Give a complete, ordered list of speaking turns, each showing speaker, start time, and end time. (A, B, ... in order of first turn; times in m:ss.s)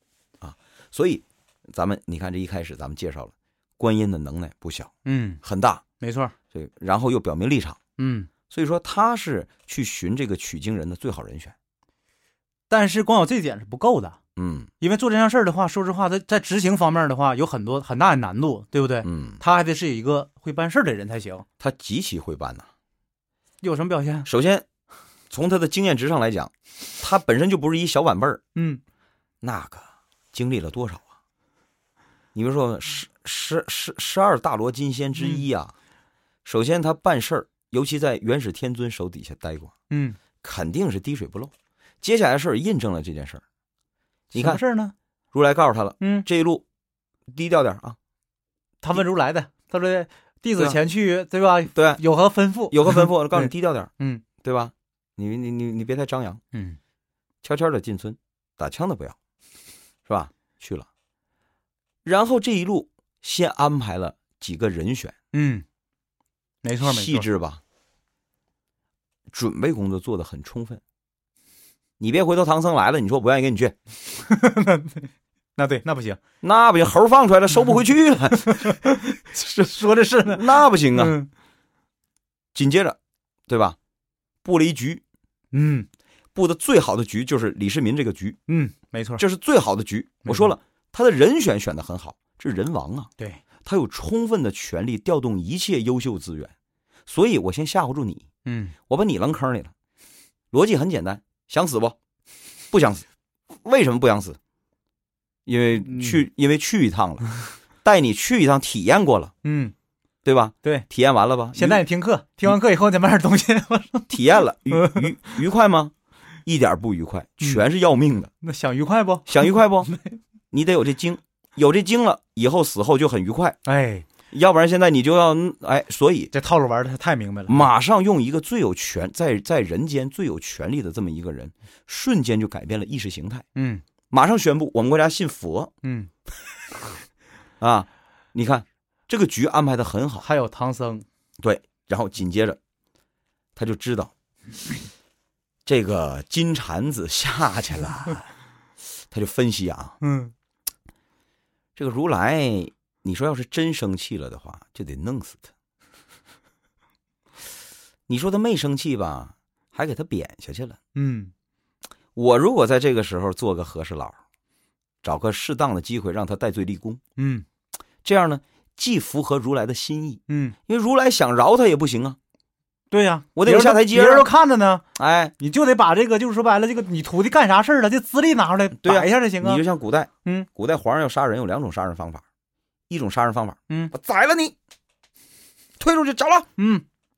0:00.4-0:05.8 A
0:05.0-0:05.4 B
0:06.0-0:06.3 B
0:06.5-0:07.8 A
0:08.0-0:08.3 B
0:08.5-0:11.5 A
0:12.7-0:14.2 B
0:14.4-0:14.7 A
0:14.8-0:21.4 B
0:19.0-0:19.4 A
0:21.6-0:22.7 A
0:23.6-0:24.3 B
0:24.2-0:24.6 A
0:25.3-0:28.4 A
0:28.5-0:28.8 B
0:29.4-0:31.1 A
0:32.3-0:35.7 A
0:35.2-0:35.4 B
0:36.4-0:39.7 A
0:39.9-0:40.2 B
0:40.4-0:43.4 A
0:44.3-0:44.9 B
0:44.3-0:44.6 A
0:45.3-0:46.6 A
0:46.0-0:46.2 B
0:47.3-0:48.0 A
0:48.8-0:54.2 B
0:51.7-0:52.0 A
0:52.7-0:53.9 A
0:54.4-0:56.4 A
0:56.5-0:56.8 B
0:57.4-0:59.2 A
1:00.0-1:00.9 A
1:02.0-1:05.2 A
1:05.3-1:05.6 B
1:06.6-1:07.2 B
1:06.8-1:07.6 A
1:09.3-1:10.8 A
1:12.0-1:13.8 A
1:14.2-1:16.2 B
1:16.4-1:18.8 A
1:18.4-1:21.3 B
1:20.2-1:21.2 A
1:22.5-1:23.0 A
1:23.5-1:23.8 A
1:24.4-1:25.0 A
1:25.5-1:25.9 B
1:26.3-1:28.4 A
1:28.5-1:29.2 B
1:29.2-1:33.1 A
1:30.2-1:30.5 B
1:33.6-1:36.5 A
1:37.1-1:38.3 A
1:38.4-1:38.7 B
1:38.9-1:39.7 A
1:40.5-1:42.0 A
1:42.7-1:43.0 A
1:43.6-1:44.4 A
1:45.4-1:49.3 A
1:45.8-1:46.2 B
1:49.4-1:49.7 B
1:50.2-1:51.8 A
1:51.5-1:54.1 B
1:54.1-1:55.9 A
1:54.7-1:55.4 B
1:56.4-1:58.3 A
1:58.4-2:00.2 B
1:59.3-1:59.9 A
2:00.5-2:03.6 A
2:03.6-2:04.1 B
2:04.3-2:06.3 A
2:06.3-2:07.7 B
2:07.5-2:13.4 A
2:13.6-2:13.8 B
2:14.1-2:15.7 A
2:15.8-2:16.1 B
2:17.6-2:20.3 A
2:20.2-2:21.0 B
2:21.4-2:22.6 A
2:23.6-2:24.1 A
2:25.6-2:28.3 A
2:29.1-2:30.0 A
2:30.0-2:30.3 B
2:31.8-2:35.5 A
2:38.1-2:40.8 A
2:40.9-2:41.3 B
2:42.1-2:44.2 A
2:45.0-2:47.0 A
2:47.2-2:47.4 B
2:48.0-2:52.2 A
2:50.3-2:50.6 B
2:52.9-2:54.8 B
2:53.3-2:54.3 A
2:55.0-2:55.3 A
2:55.4-2:59.6 B
2:58.8-3:02.2 A
3:02.9-3:04.5 A
3:05.8-3:06.5 A
3:06.6-3:06.8 B